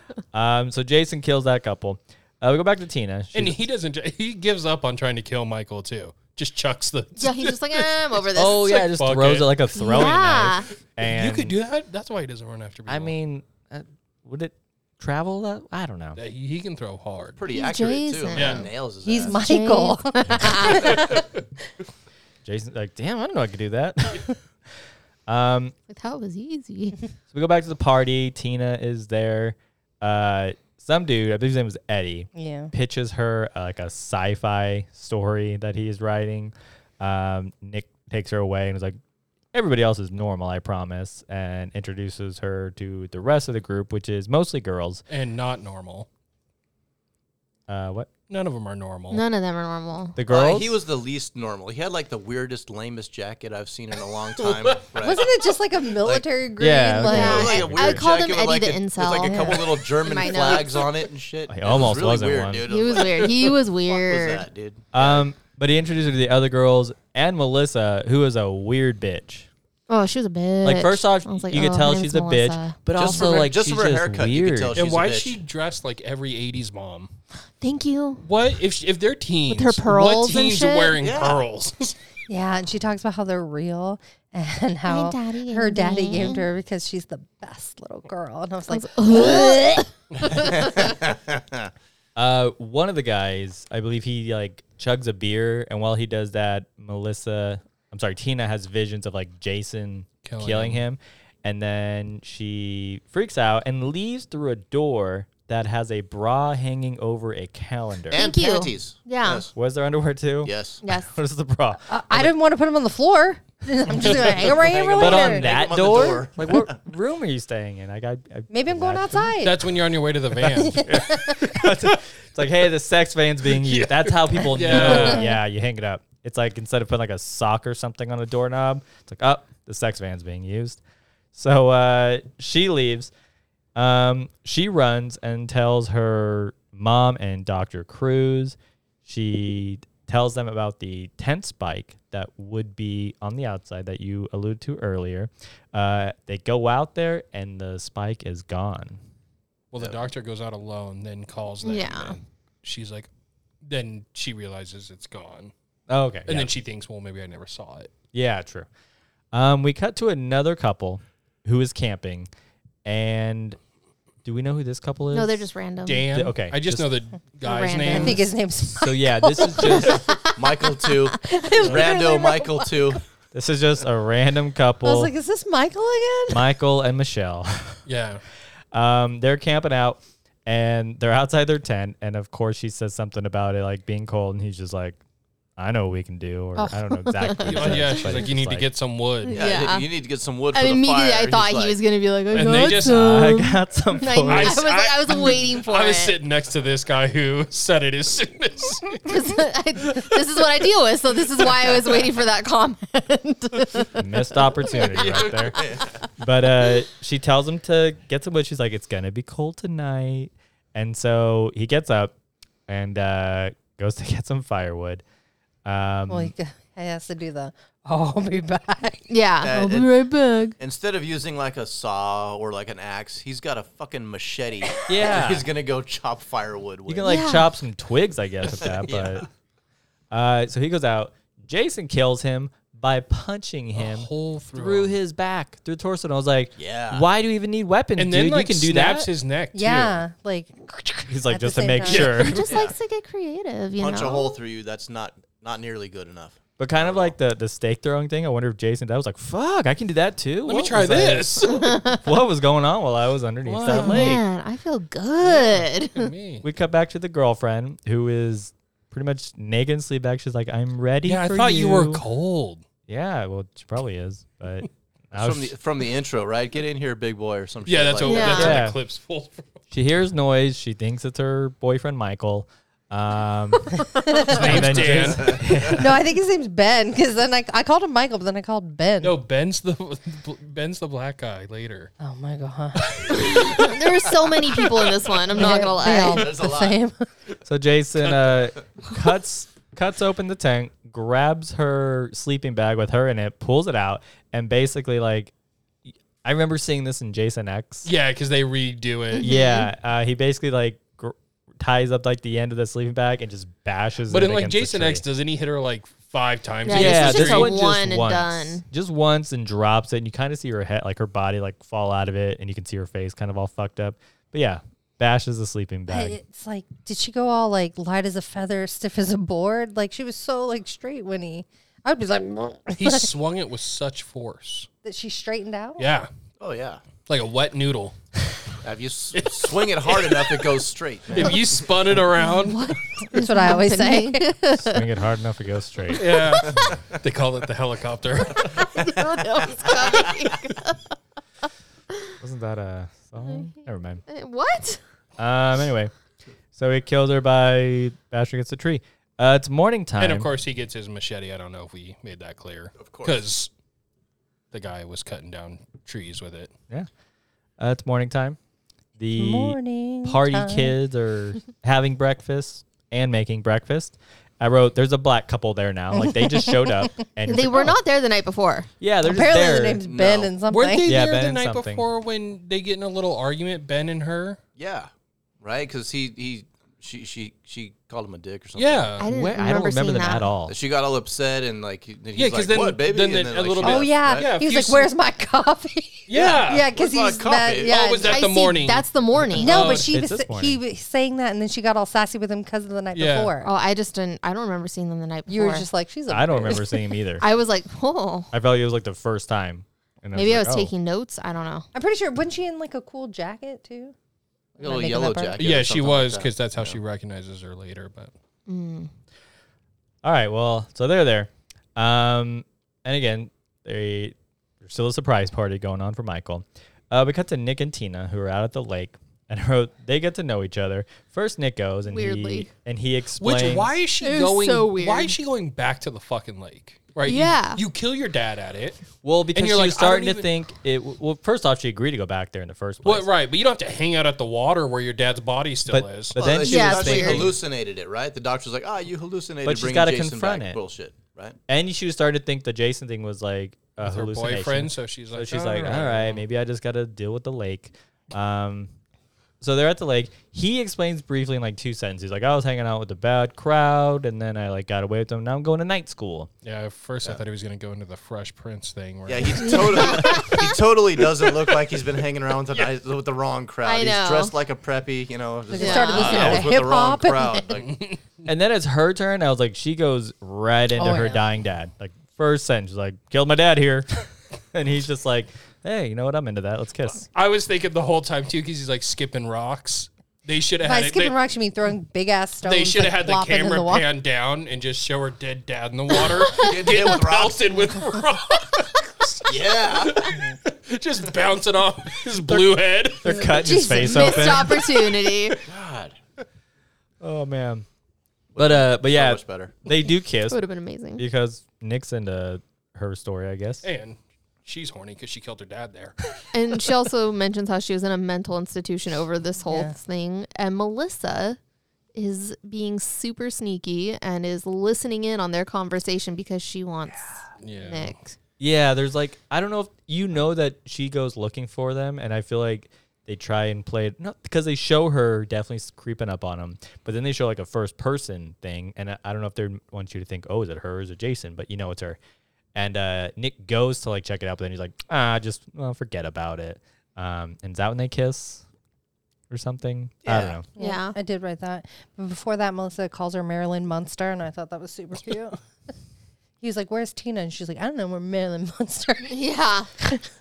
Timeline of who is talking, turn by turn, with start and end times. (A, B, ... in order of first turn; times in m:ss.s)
0:00.3-0:03.6 A
0:03.3-0:07.8 B
0:07.2-0:08.6 C
0:08.4-0:11.5 A
0:08.5-0:10.1 B
0:09.7-0:10.7 C
0:11.0-0:13.1 B
0:12.9-0:16.2 A
0:16.2-0:17.4 B
0:17.3-0:19.4 D
0:17.5-0:18.7 C
0:18.3-0:18.7 B
0:19.0-0:21.2 E
0:19.3-0:21.0 C
0:20.9-0:21.2 B
0:22.4-0:24.3 A
0:25.3-0:25.7 A
0:25.9-0:27.0 C
0:27.3-0:39.0 A
0:32.3-0:32.7 E
0:39.5-0:45.0 A
0:45.1-0:46.1 B
0:47.7-0:48.1 A
0:48.3-0:49.2 B
0:49.1-0:50.2 C
0:50.2-0:50.8 A
0:50.3-0:55.3 D
0:54.4-0:54.8 B
0:55.0-0:57.6 E
0:56.6-0:58.0 A
0:57.1-1:00.9 C
0:57.1-1:05.3 D
1:01.5-1:02.7 A
1:02.7-1:04.4 C
1:04.9-1:09.5 A
1:09.9-1:13.4 C
1:10.6-1:14.7 A
1:12.9-1:15.4 D
1:14.7-1:17.1 B
1:17.6-1:18.2 C
1:18.2-1:21.9 B
1:19.5-1:21.0 C
1:21.0-1:21.4 D
1:22.3-1:29.8 E
1:24.9-1:26.4 C
1:28.7-1:29.9 C
1:30.2-1:31.7 D
1:30.4-1:30.7 C
1:32.2-1:48.2 A
1:40.2-1:40.8 B
1:48.1-1:49.5 D
1:48.1-1:49.4 C
1:49.5-1:52.3 A
1:50.4-1:50.8 D
1:50.8-1:51.1 C
1:51.9-1:55.5 E
1:54.0-1:59.4 A
1:54.4-1:56.8 D
1:58.5-1:59.6 E
1:59.4-2:01.0 B
2:00.6-2:01.4 E
2:00.7-2:10.8 A
2:03.5-2:05.3 B
2:04.7-2:05.3 E
2:11.3-2:13.1 A
2:13.7-2:29.0 A
2:29.7-2:33.1 B
2:31.6-2:32.2 C
2:33.6-2:35.5 B
2:35.9-2:36.5 A
2:36.3-2:37.9 B
2:38.1-2:38.7 A
2:39.3-2:42.3 A
2:42.8-2:43.6 A
2:44.2-2:45.5 A
2:45.1-2:46.1 C
2:45.8-2:48.2 B
2:46.1-2:46.9 A
2:47.4-2:48.2 C
2:47.8-2:52.7 E
2:48.7-2:50.1 A
2:50.3-2:53.0 D
2:53.3-2:55.1 A
2:54.8-2:56.4 E
2:56.3-2:57.8 A
2:57.8-2:58.2 B
2:58.7-3:05.0 A
3:05.6-3:08.7 A
3:06.6-3:08.2 C
3:07.4-3:09.5 B
3:09.2-3:09.9 C
3:09.3-3:11.8 D
3:10.5-3:16.2 C
3:12.3-3:13.4 B
3:12.8-3:14.6 A
3:14.2-3:19.1 B
3:19.0-3:24.0 C
3:23.9-3:25.6 A
3:25.0-3:25.5 B
3:25.6-3:26.0 D
3:26.2-3:32.1 A
3:32.7-3:35.0 A
3:35.6-3:36.3 A
3:36.1-3:39.0 E
3:39.1-3:40.6 C
3:39.4-3:39.9 D
3:40.6-3:47.2 D
3:44.9-3:45.5 A
3:46.9-3:49.3 A
3:47.0-3:47.5 C
3:48.5-3:49.3 D
3:50.1-3:59.1 A
3:53.8-3:54.9 B
3:56.6-3:57.1 D
3:58.0-4:00.0 B
3:59.5-4:02.3 E
4:01.1-4:02.5 A
4:01.8-4:02.5 B
4:02.2-4:04.4 C
4:02.5-4:02.7 D
4:03.8-4:07.1 D
4:06.6-4:14.2 A
4:10.4-4:11.8 B
4:11.5-4:12.0 C
4:13.4-4:14.2 B
4:13.7-4:16.1 C
4:15.2-4:16.4 B
4:16.4-4:22.0 A
4:21.0-4:22.6 B
4:22.9-4:25.5 A
4:25.1-4:28.6 D
4:27.6-4:29.4 B
4:28.0-4:28.6 C
4:28.3-4:28.8 A
4:29.7-4:36.0 A
4:34.0-4:34.5 E
4:34.1-4:35.4 B
4:34.5-4:35.7 D
4:35.7-4:39.2 E
4:39.0-4:41.9 B
4:42.0-4:43.3 E
4:42.9-4:43.8 B
4:43.1-4:46.3 C
4:45.4-4:47.0 E
4:45.9-4:46.8 D
4:47.4-4:55.3 A
4:56.2-4:57.9 A
4:57.8-4:59.3 B
4:59.2-4:59.7 C
4:59.2-5:05.0 A
5:04.1-5:07.5 B
5:06.6-5:08.6 C
5:06.7-5:16.2 A
5:15.9-5:23.1 E
5:22.7-5:24.7 B
5:24.8-5:25.9 E
5:25.8-5:26.1 B
5:26.4-5:26.8 D
5:27.0-5:28.0 B
5:28.6-5:32.0 D
5:29.1-5:30.6 B
5:31.1-5:32.7 B
5:32.4-5:34.8 C
5:33.1-5:34.3 E
5:34.6-5:36.7 A
5:35.9-5:38.7 B
5:36.5-5:37.0 D
5:38.8-5:40.1 D
5:38.8-5:40.9 C
5:42.2-5:44.0 A
5:44.1-5:44.8 C
5:45.2-5:45.9 A
5:46.5-5:50.3 A
5:50.0-5:53.5 B
5:52.8-5:53.2 D
5:54.5-5:56.5 B
5:57.6-5:58.4 A
5:59.0-6:07.8 A
5:59.1-6:00.8 E
6:06.0-6:06.7 E
6:07.2-6:08.7 C
6:08.8-6:09.8 A
6:09.0-6:10.9 E
6:09.8-6:10.4 D
6:10.5-6:14.4 B
6:10.8-6:11.8 A
6:14.6-6:14.9 D
6:15.4-6:19.0 D
6:18.6-6:19.0 B
6:19.0-6:20.3 C
6:19.0-6:20.6 A
6:20.5-6:24.3 D
6:22.1-6:24.9 B
6:23.6-6:28.2 E
6:26.1-6:26.7 B
6:26.1-6:28.1 D
6:27.6-6:29.9 B
6:28.0-6:29.7 C
6:29.4-6:33.5 E
6:29.6-6:30.6 A
6:32.9-6:33.3 B
6:33.4-6:35.7 C
6:35.3-6:36.8 E
6:36.1-6:37.2 A
6:37.2-6:38.3 C
6:38.3-6:40.7 A
6:40.1-6:41.7 C
6:41.7-6:43.9 E
6:44.6-6:46.8 D
6:44.6-6:45.4 E
6:45.4-6:48.1 B
6:48.5-6:48.9 C
6:50.0-7:03.7 A
7:01.9-7:02.5 C
7:03.2-7:08.8 B
7:04.0-7:05.2 C
7:07.0-7:07.6 C
7:09.0-7:13.1 A
7:09.3-7:10.3 B
7:12.8-7:16.2 B
7:15.7-7:17.4 A
7:16.1-7:21.4 D
7:16.4-7:17.3 C
7:19.4-7:20.6 A
7:21.5-7:28.7 A
7:23.8-7:26.2 B
7:29.4-7:36.3 A
7:36.4-7:40.3 B
7:39.1-7:47.8 D
7:39.4-7:40.5 C
7:43.6-7:44.3 C
7:45.5-7:47.6 E
7:45.6-7:46.4 C
7:47.6-7:48.0 B
7:48.2-7:57.1 A
7:50.8-7:51.2 E
7:57.1-8:01.2 B
8:00.6-8:03.9 E
8:02.4-8:13.2 B
8:06.4-8:07.6 D
8:09.2-8:10.2 D
8:12.2-8:14.6 A
8:13.1-8:14.3 E
8:13.7-8:15.4 C
8:15.4-8:16.0 D
8:17.0-8:17.6 A
8:18.3-8:19.5 D
8:18.4-8:20.4 A
8:20.3-8:21.0 C
8:21.0-8:23.6 A
8:23.6-8:26.1 B
8:26.3-8:31.4 C
8:29.5-8:29.8 E
8:31.9-8:38.1 C
8:37.4-8:38.0 B
8:38.4-8:52.0 A
8:52.5-8:58.4 A
8:59.3-9:00.4 A
9:00.0-9:00.4 D
9:00.6-9:05.4 E
9:00.6-9:01.0 C
9:06.4-9:09.2 E
9:09.1-9:09.7 C